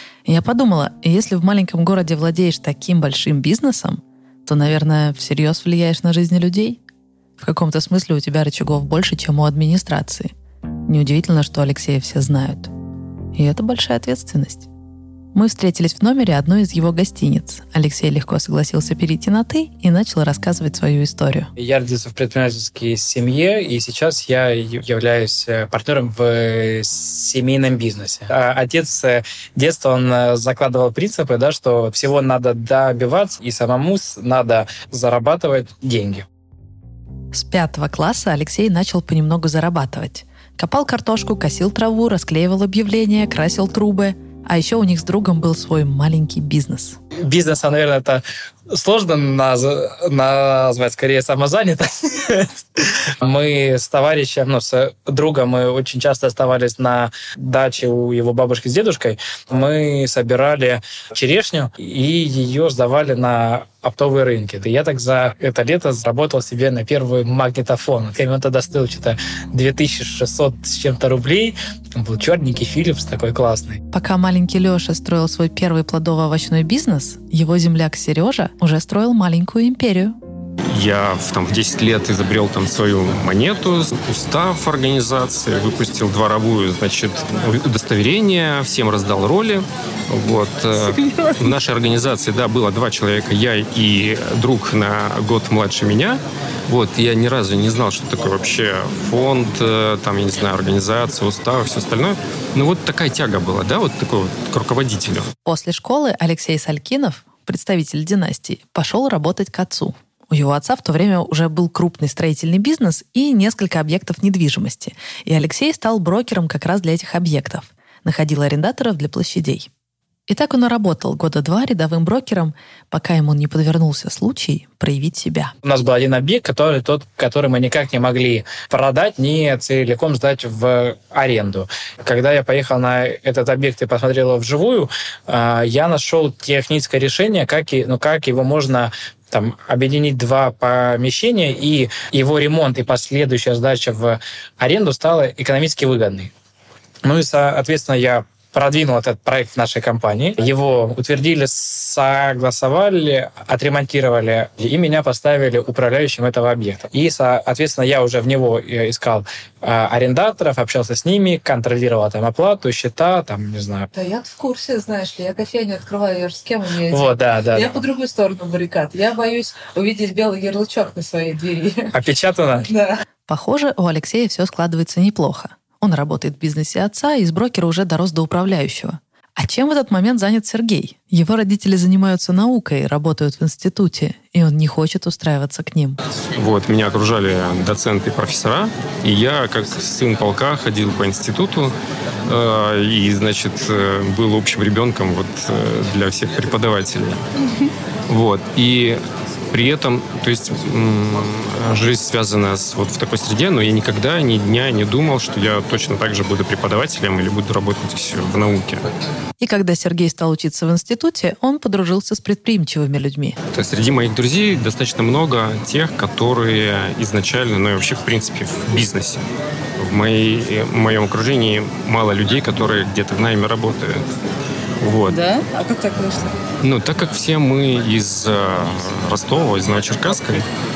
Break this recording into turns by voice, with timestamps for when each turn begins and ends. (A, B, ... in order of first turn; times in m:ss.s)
0:00.2-0:06.8 A
0:07.4-0:10.3 A
0:10.9-0:12.7 A
0:13.3-0:14.7 A
0:15.3-0:21.5 A
0:21.6-0:36.2 B
0:37.3-0:47.0 A
0:47.2-1:13.8 B
1:13.9-1:20.2 A
1:20.7-1:45.3 C
1:30.9-1:31.3 D
1:45.4-1:59.7 A
2:00.3-2:05.5 A
2:05.6-2:26.3 B
2:27.0-2:43.9 B
2:44.0-2:51.9 D
2:46.9-2:47.8 B
2:51.9-2:52.7 B
2:52.7-2:53.0 D
2:53.3-3:06.0 A
3:06.4-3:11.7 C
3:12.3-3:17.2 C
3:18.1-3:19.0 C
3:19.5-3:28.8 C
3:29.4-3:33.4 A
3:33.5-3:39.2 C
3:39.8-3:44.0 C
3:44.8-3:45.2 C
3:45.0-3:46.3 D
3:46.6-3:50.4 C